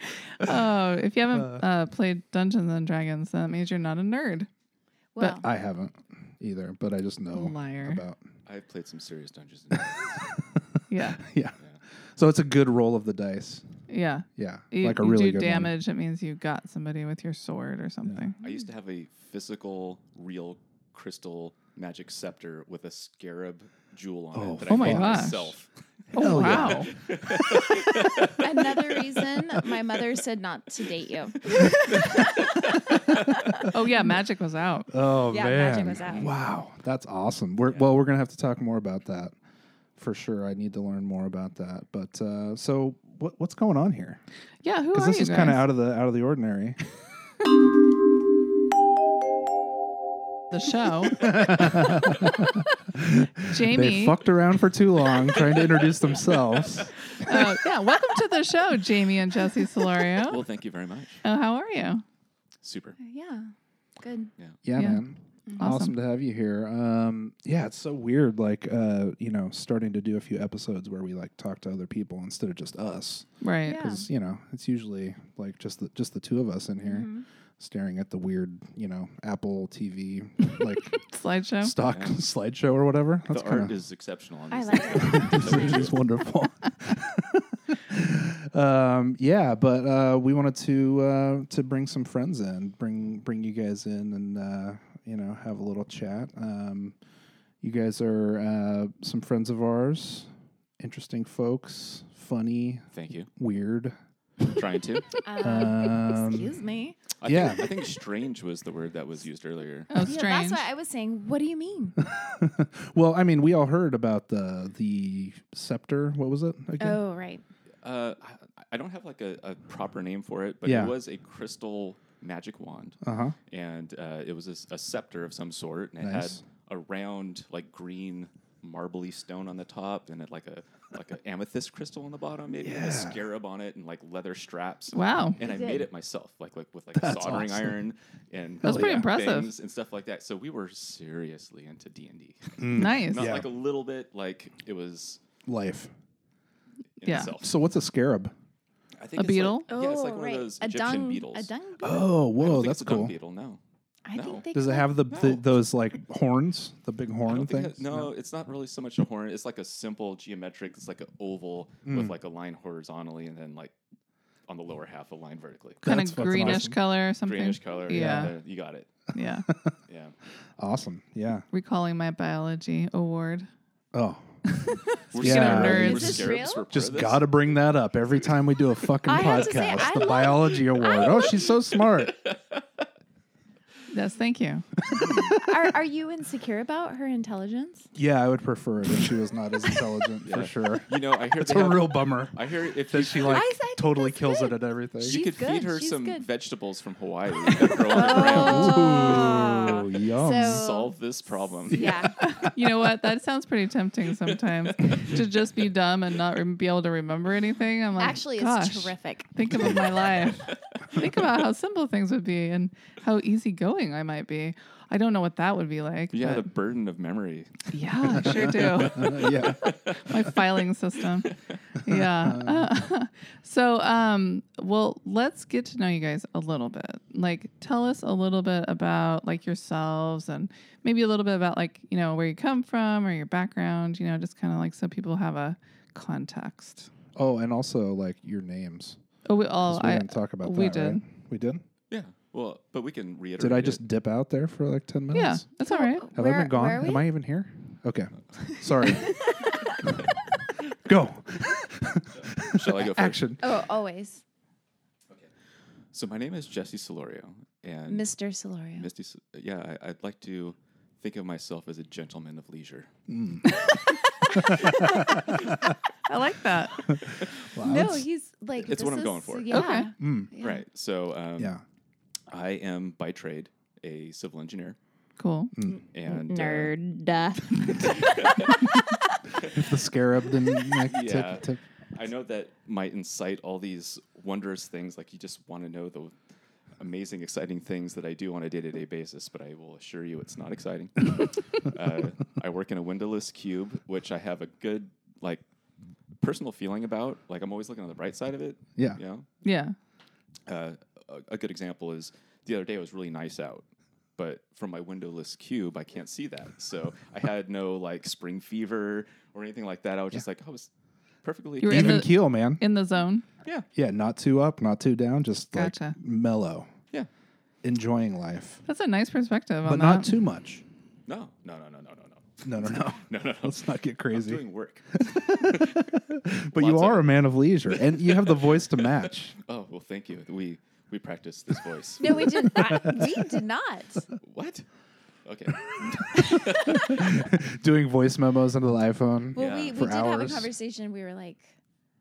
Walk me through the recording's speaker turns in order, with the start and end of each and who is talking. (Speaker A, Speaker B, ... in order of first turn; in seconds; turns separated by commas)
Speaker A: 0.4-4.5, Speaker B: 0.4-0.7, Speaker B: 1.3-1.6, Speaker C: 5.1-5.4, Speaker B: 5.4-8.2, Speaker A: 7.3-8.0, Speaker D: 8.4-10.3, Speaker B: 9.9-10.2, Speaker A: 10.9-11.2, Speaker B: 11.1-11.6, Speaker B: 12.2-13.6, Speaker A: 13.9-18.4, Speaker B: 14.3-15.8, Speaker D: 18.4-29.1, Speaker B: 24.3-25.4, Speaker A: 24.6-25.5, Speaker A: 26.1-26.9, Speaker B: 26.1-27.8, Speaker C: 28.4-32.6, Speaker D: 31.5-32.9, Speaker B: 32.7-33.2, Speaker A: 33.7-34.9, Speaker B: 34.9-39.3, Speaker C: 35.3-36.3, Speaker D: 37.6-37.9, Speaker B: 40.0-44.2, Speaker A: 44.6-45.6, Speaker B: 44.9-46.8, Speaker A: 50.5-51.3, Speaker B: 51.1-57.5, Speaker A: 53.5-54.2, Speaker D: 56.0-56.8, Speaker A: 57.2-60.4, Speaker D: 60.1-61.2, Speaker A: 61.2-62.0, Speaker D: 62.6-63.0, Speaker C: 63.0-64.3, Speaker B: 64.6-83.7, Speaker A: 64.8-65.0, Speaker A: 65.6-65.9, Speaker A: 73.4-73.8, Speaker C: 73.7-74.1, Speaker C: 76.8-77.2, Speaker A: 81.0-81.7, Speaker D: 81.9-82.2, Speaker D: 83.3-86.0, Speaker C: 84.5-85.9, Speaker B: 84.9-97.0, Speaker B: 97.6-100.3, Speaker B: 100.8-103.9, Speaker D: 102.9-103.3, Speaker D: 104.5-105.2, Speaker C: 105.2-107.1, Speaker B: 105.4-106.5, Speaker D: 107.2-109.9, Speaker B: 107.2-107.7, Speaker A: 109.9-110.7, Speaker C: 110.0-112.0, Speaker B: 112.0-117.0, Speaker C: 116.8-117.4, Speaker D: 117.8-145.2, Speaker B: 120.6-120.9, Speaker B: 123.0-123.3, Speaker B: 126.0-126.4, Speaker B: 132.6-133.2, Speaker A: 134.9-135.4, Speaker C: 135.4-135.9, Speaker B: 136.9-137.8, Speaker B: 138.6-139.1, Speaker A: 138.6-139.5, Speaker B: 142.6-143.5, Speaker A: 142.7-143.3, Speaker B: 145.4-145.9, Speaker D: 147.0-147.5, Speaker A: 147.0-147.3, Speaker B: 147.3-148.3, Speaker D: 149.0-151.5, Speaker A: 149.1-149.7, Speaker C: 149.7-152.3, Speaker B: 151.8-153.2, Speaker D: 152.3-153.6, Speaker C: 154.0-155.0, Speaker D: 154.1-154.4, Speaker B: 154.5-158.1, Speaker D: 155.1-155.6, Speaker D: 157.2-163.7, Speaker B: 161.8-162.2, Speaker D: 164.5-166.7, Speaker B: 165.8-166.8, Speaker A: 165.8-168.3, Speaker D: 167.2-168.9, Speaker B: 167.9-168.3, Speaker A: 169.1-169.4, Speaker B: 169.5-169.8, Speaker D: 169.9-170.1, Speaker B: 170.6-171.4, Speaker A: 171.5-173.5, Speaker B: 173.9-174.2, Speaker D: 175.1-177.4, Speaker A: 175.1-176.2, Speaker B: 175.2-182.2, Speaker C: 175.8-176.7, Speaker C: 179.1-181.5, Speaker D: 180.8-182.8, Speaker A: 183.9-184.7, Speaker D: 184.8-185.4, Speaker B: 184.9-185.4, Speaker C: 185.3-187.9, Speaker B: 187.9-195.2, Speaker D: 190.2-193.4, Speaker C: 193.1-196.3, Speaker D: 195.0-202.1, Speaker C: 197.4-200.9, Speaker B: 197.7-200.6, Speaker C: 201.7-202.2, Speaker A: 202.2-216.5, Speaker D: 204.5-205.1, Speaker C: 208.0-209.5, Speaker D: 216.1-220.4, Speaker A: 217.7-221.3, Speaker B: 218.1-219.7, Speaker A: 221.8-236.9, Speaker B: 221.9-222.7, Speaker B: 237.1-239.0, Speaker A: 239.2-241.0, Speaker B: 239.6-241.6, Speaker D: 241.9-243.8, Speaker B: 243.4-245.4, Speaker A: 245.1-246.1, Speaker C: 245.7-247.1, Speaker B: 246.1-249.3, Speaker C: 248.8-249.6, Speaker B: 250.7-253.5, Speaker D: 252.1-253.4, Speaker C: 253.4-254.2, Speaker D: 255.9-258.1, Speaker C: 257.9-258.9, Speaker D: 258.8-262.9, Speaker B: 263.1-263.7, Speaker B: 264.3-265.7, Speaker A: 264.4-264.9, Speaker A: 266.0-266.9, Speaker B: 267.5-268.0, Speaker C: 267.6-270.6, Speaker D: 268.6-269.7, Speaker A: 269.5-269.9, Speaker B: 270.0-270.3, Speaker D: 270.4-271.5, Speaker D: 272.3-274.8, Speaker A: 275.2-275.5, Speaker B: 275.5-275.8, Speaker C: 275.7-279.0, Speaker D: 275.9-276.7, Speaker D: 277.9-278.7, Speaker D: 279.4-279.7, Speaker B: 279.5-281.6, Speaker D: 280.9-286.1, Speaker D: 286.8-295.4, Speaker D: 296.2-299.3, Speaker A: 299.4-299.7, Speaker D: 300.5-303.6, Speaker D: 304.1-310.7, Speaker D: 311.2-312.1, Speaker A: 311.6-313.2, Speaker B: 311.6-312.6, Speaker B: 313.7-316.7, Speaker A: 315.5-315.9, Speaker B: 317.6-318.6, Speaker A: 318.6-320.2, Speaker B: 319.6-320.6, Speaker D: 321.1-325.9, Speaker B: 322.4-324.4, Speaker B: 325.0-329.4, Speaker D: 326.5-332.8, Speaker C: 332.0-334.1, Speaker B: 332.1-333.2, Speaker D: 334.2-334.6, Speaker D: 335.2-337.1, Speaker B: 336.1-340.5, Speaker C: 339.3-341.6, Speaker D: 339.3-339.8